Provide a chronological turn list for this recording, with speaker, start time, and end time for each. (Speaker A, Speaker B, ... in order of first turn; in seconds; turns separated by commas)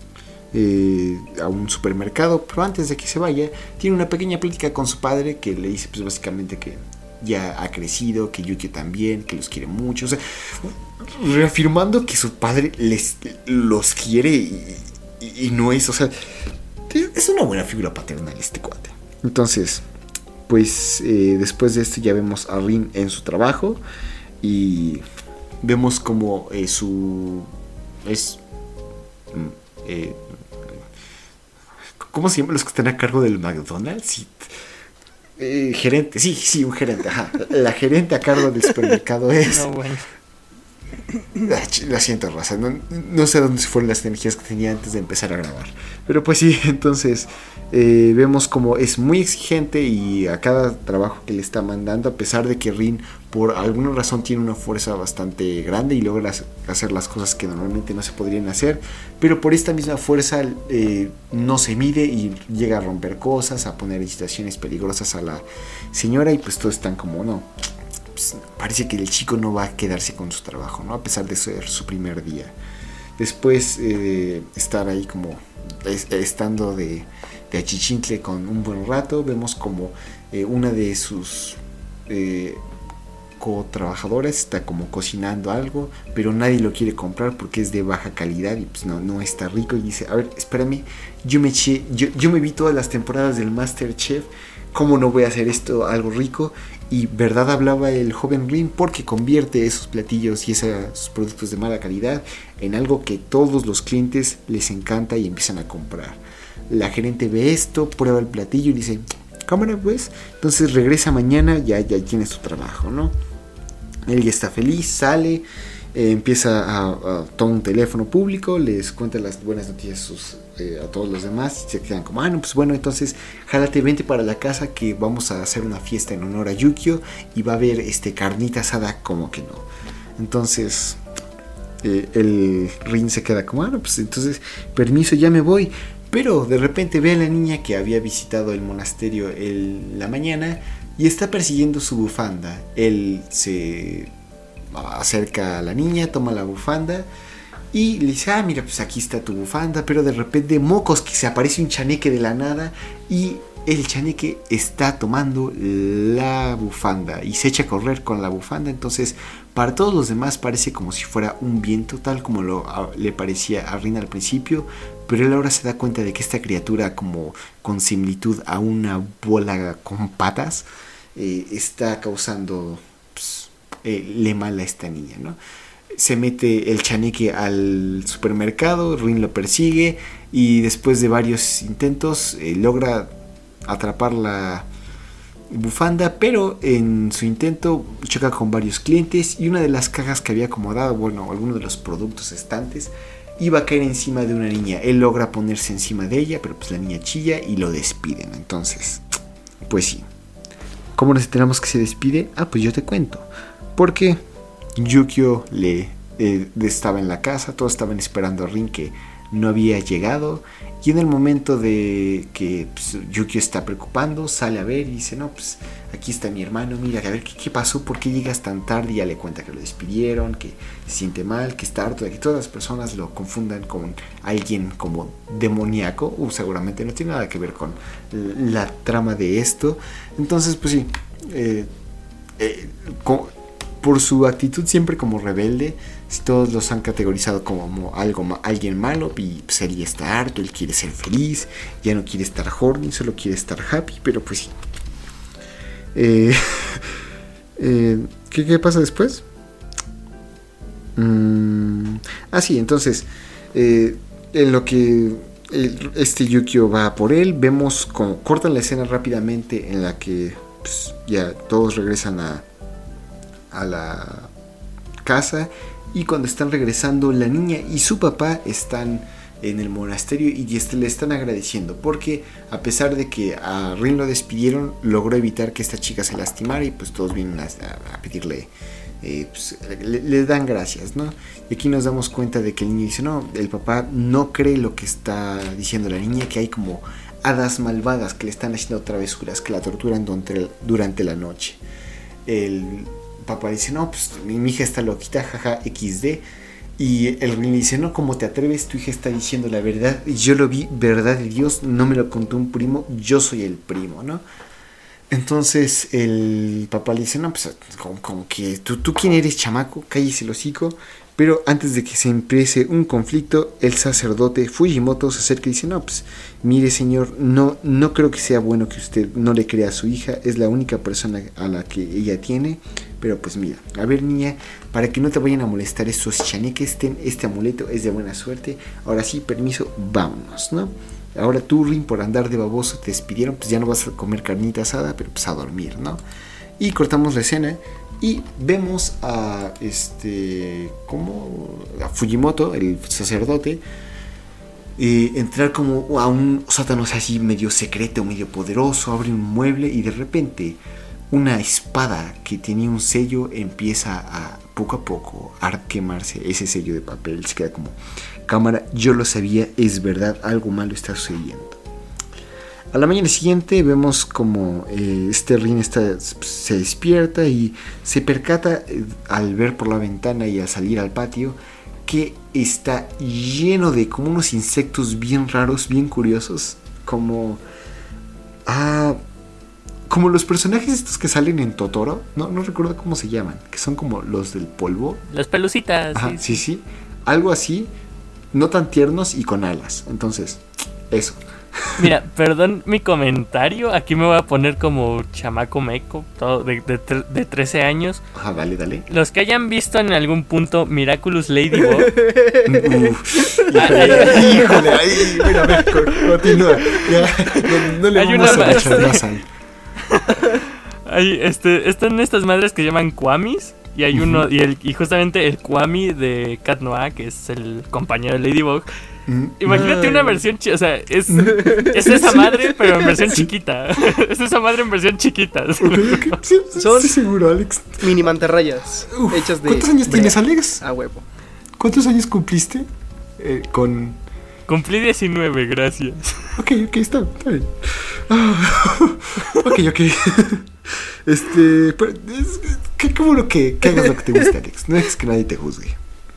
Speaker A: 0.5-16.1, Speaker A: 16.9-19.8, Speaker A: 20.5-23.8, Speaker A: 24.4-25.0, Speaker A: 25.6-27.5, Speaker A: 28.0-28.4, Speaker A: 29.3-30.8, Speaker A: 32.0-34.5, Speaker A: 35.4-39.7, Speaker B: 39.5-40.0, Speaker A: 41.4-67.5, Speaker A: 68.1-72.5, Speaker A: 73.2-82.6, Speaker A: 83.4-113.1, Speaker A: 114.1-129.7, Speaker A: 130.2-131.0, Speaker A: 131.8-144.1, Speaker A: 144.7-147.1, Speaker A: 147.7-175.4, Speaker A: 175.9-183.1, Speaker A: 183.7-184.7, Speaker A: 185.5-199.0, Speaker A: 199.7-200.0, Speaker A: 200.9-204.2, Speaker A: 204.8-231.7, Speaker A: 232.4-244.5, Speaker A: 245.9-246.9, Speaker A: 247.6-249.2, Speaker A: 250.9-262.4, Speaker A: 263.5-264.3, Speaker A: 265.0-278.5, Speaker A: 279.0-291.6, Speaker A: 292.2-296.2, Speaker A: 296.8-304.2, Speaker A: 305.1-336.0, Speaker A: 336.6-343.6, Speaker A: 344.8-350.6, Speaker A: 351.1-361.6, Speaker A: 362.7-377.4, Speaker A: 378.5-379.0, Speaker A: 379.9-385.0, Speaker B: 385.1-386.4, Speaker A: 385.9-387.7, Speaker A: 388.3-391.9, Speaker B: 391.8-398.0, Speaker A: 398.1-398.9, Speaker B: 398.9-401.9, Speaker C: 401.7-404.8, Speaker A: 402.4-409.2, Speaker B: 403.5-406.0, Speaker B: 406.7-409.0, Speaker C: 408.2-408.8, Speaker B: 409.8-418.6, Speaker A: 413.9-414.2, Speaker A: 419.1-420.0, Speaker B: 419.4-426.2, Speaker C: 419.6-420.0, Speaker A: 421.2-423.3, Speaker C: 421.2-422.2, Speaker A: 425.6-428.0, Speaker C: 426.6-427.0, Speaker C: 427.8-431.0, Speaker A: 428.9-430.6, Speaker A: 431.6-432.7, Speaker A: 433.2-434.0, Speaker B: 434.5-436.3, Speaker A: 436.4-445.8